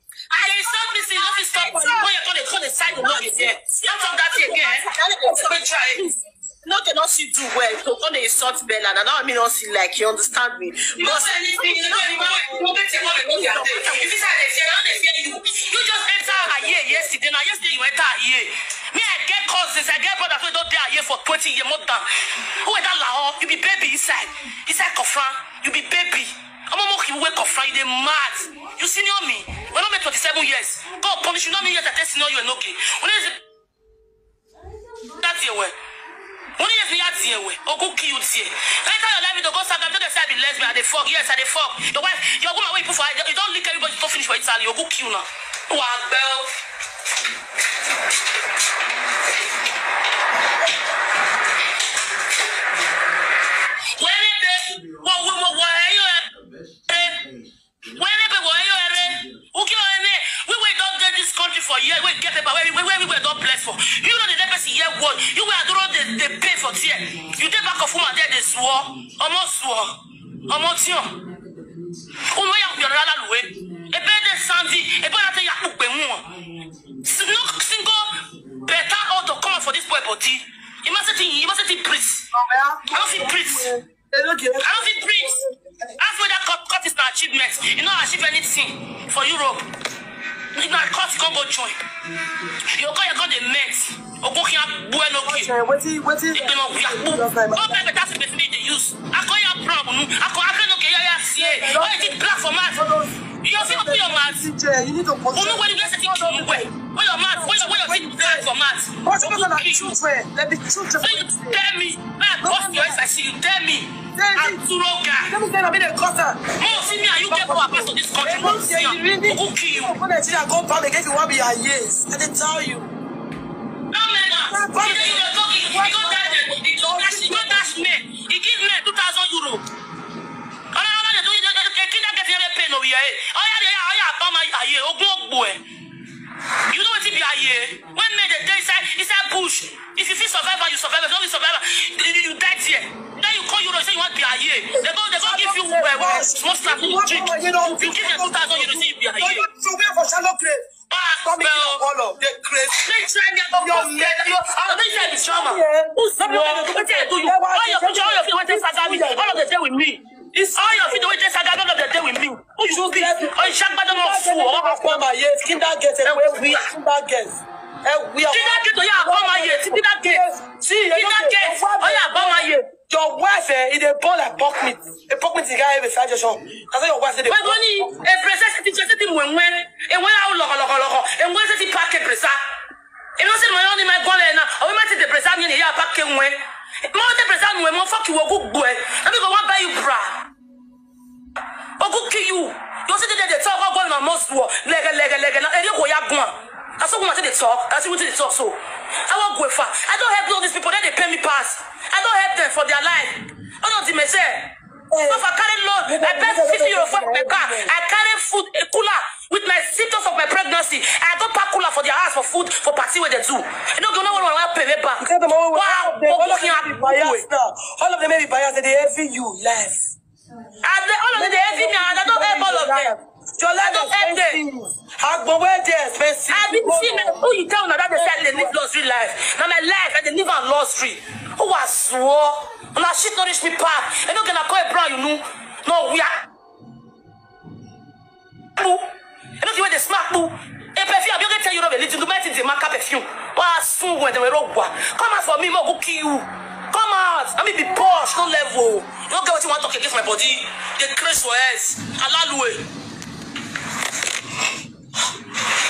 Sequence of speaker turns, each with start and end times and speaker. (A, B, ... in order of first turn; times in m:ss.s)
0:00.3-0:06.1 A
0:00.3-0:02.1 B
0:03.0-0:14.2 B
0:11.0-0:33.4 A
0:16.2-0:17.1 B
0:35.2-0:35.8 A
0:36.6-0:46.5 A
0:54.0-0:56.3 A
0:56.9-0:57.2 A
0:57.9-1:11.2 A
1:12.3-1:16.3 A
1:17.0-1:22.3 A
1:22.3-1:25.6 C
1:22.9-1:23.7 A
1:24.6-1:25.4 A
1:26.0-1:29.7 A
1:30.5-1:31.8 A
1:32.7-1:35.5 A
1:35.2-1:37.9 C
1:36.3-1:42.9 A
1:41.3-1:42.2 C
1:42.7-1:48.5 C
1:43.4-1:44.5 A
1:45.3-1:50.0 A
1:49.0-1:51.6 C
1:51.0-1:55.4 A
1:52.4-1:53.0 C
1:54.1-1:54.6 C
1:55.2-2:02.9 C
1:56.6-2:00.0 A
2:03.9-2:09.6 A
2:04.4-2:07.8 C
2:10.7-2:15.6 A
2:16.7-2:29.5 A
2:24.7-2:32.9 C
2:30.9-2:31.8 A
2:32.7-2:40.0 A
2:33.5-2:39.5 C
2:40.3-2:41.1 C
2:40.5-2:45.1 A
2:42.6-2:57.9 C
2:46.0-2:46.7 A
2:48.3-2:50.2 A
2:50.9-2:52.7 A
2:57.3-3:02.4 A
3:03.2-3:10.3 A
3:11.8-3:37.3 A
3:24.9-3:25.3 C
3:25.8-3:27.7 C
3:35.0-3:39.8 C
3:40.6-3:43.0 A
3:41.1-3:47.3 C
3:43.7-3:44.4 A
3:46.3-3:56.3 A
3:47.9-3:48.6 C
3:58.6-4:12.7 A